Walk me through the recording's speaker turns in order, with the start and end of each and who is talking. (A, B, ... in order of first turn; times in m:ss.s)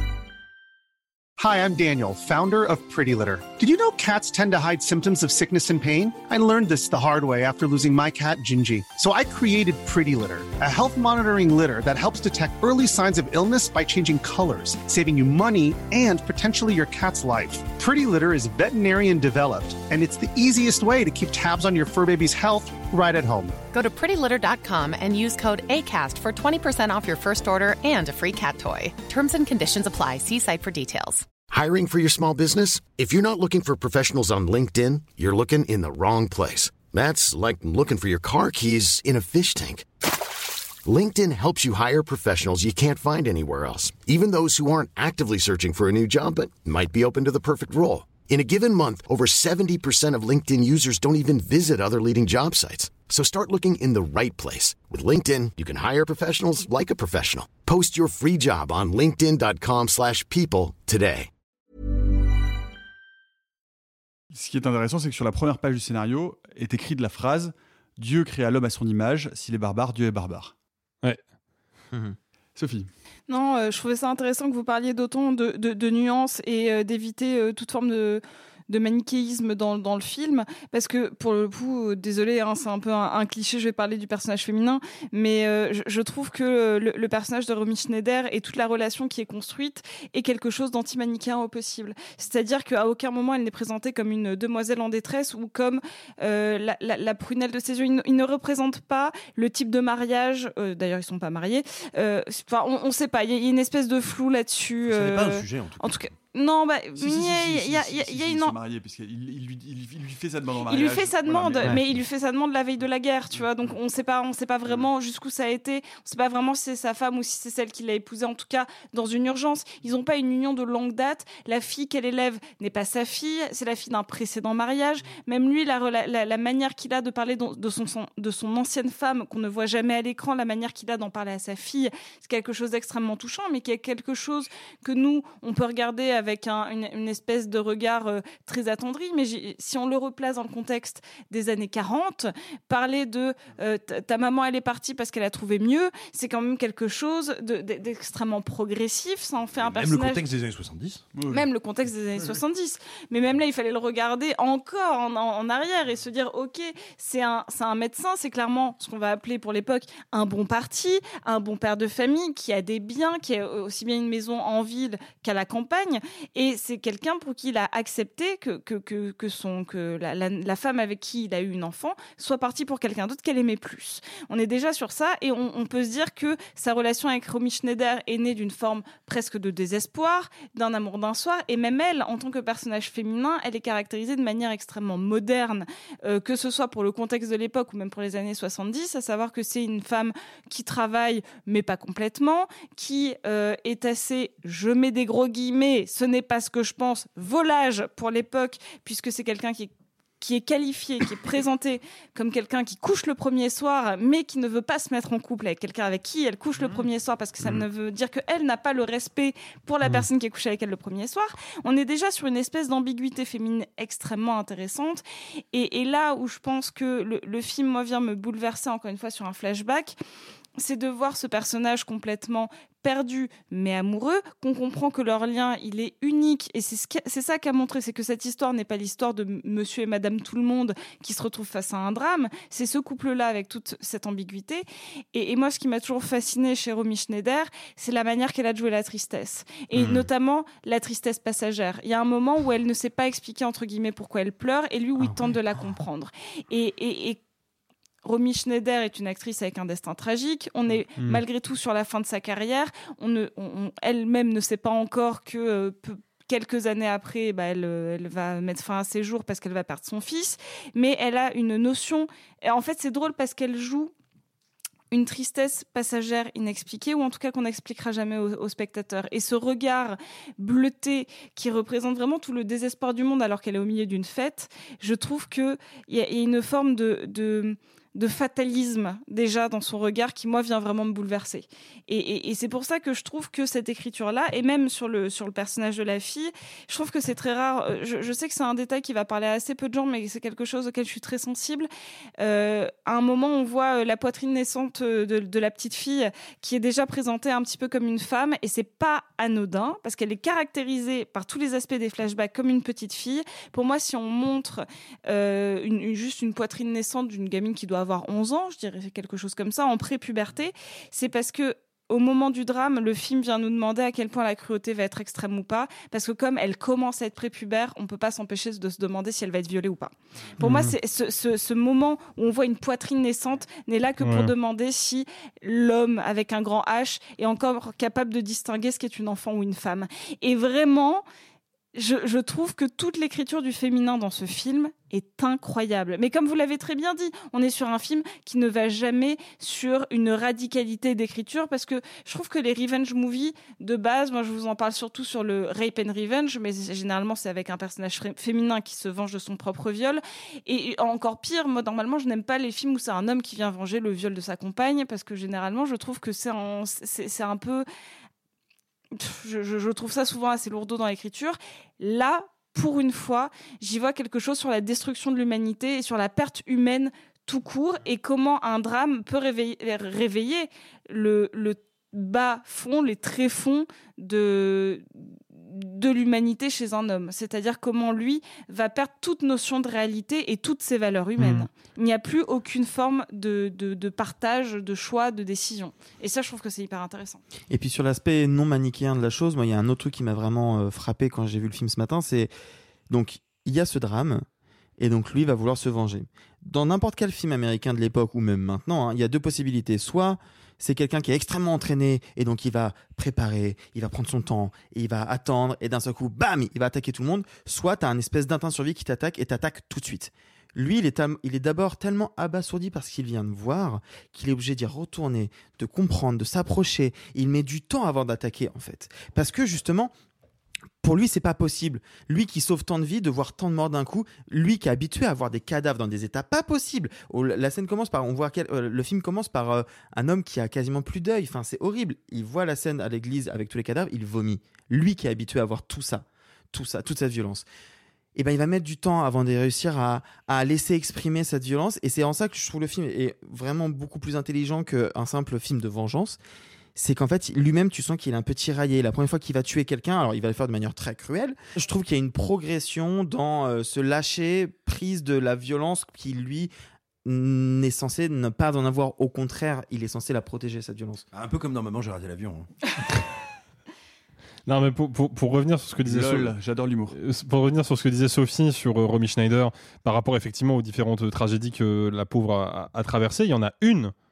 0:01.4-0:23.5 A
0:23.7-0:31.2 B
0:31.5-0:39.8 C
0:40.8-1:01.3 C
1:04.3-1:10.5 D
1:12.6-1:12.9 D
1:13.3-1:48.6 E
1:44.9-1:45.9 F
1:47.0-1:51.9 D
1:50.7-2:30.2 E
2:29.6-2:31.1 F
2:31.1-2:31.4 D
2:31.3-3:39.9 E
3:40.6-4:07.2 E
3:59.8-4:00.0 G
4:08.0-4:23.9 E
4:24.9-4:51.7 E
4:52.2-5:31.0 E
5:20.4-5:20.7 G
5:24.0-5:24.3 G
5:31.7-5:57.6 E
5:58.9-6:27.2 E
6:21.2-6:21.5 G
6:27.5-6:32.3 H
6:32.9-6:34.2 H
6:34.8-6:59.9 H
7:00.8-7:17.4 H
7:18.2-7:26.2 H
7:26.8-7:36.5 H
7:37.0-7:41.0 H
7:41.1-7:42.5 F
7:44.5-7:46.3 G
7:45.8-7:47.0 D
7:46.9-7:53.9 G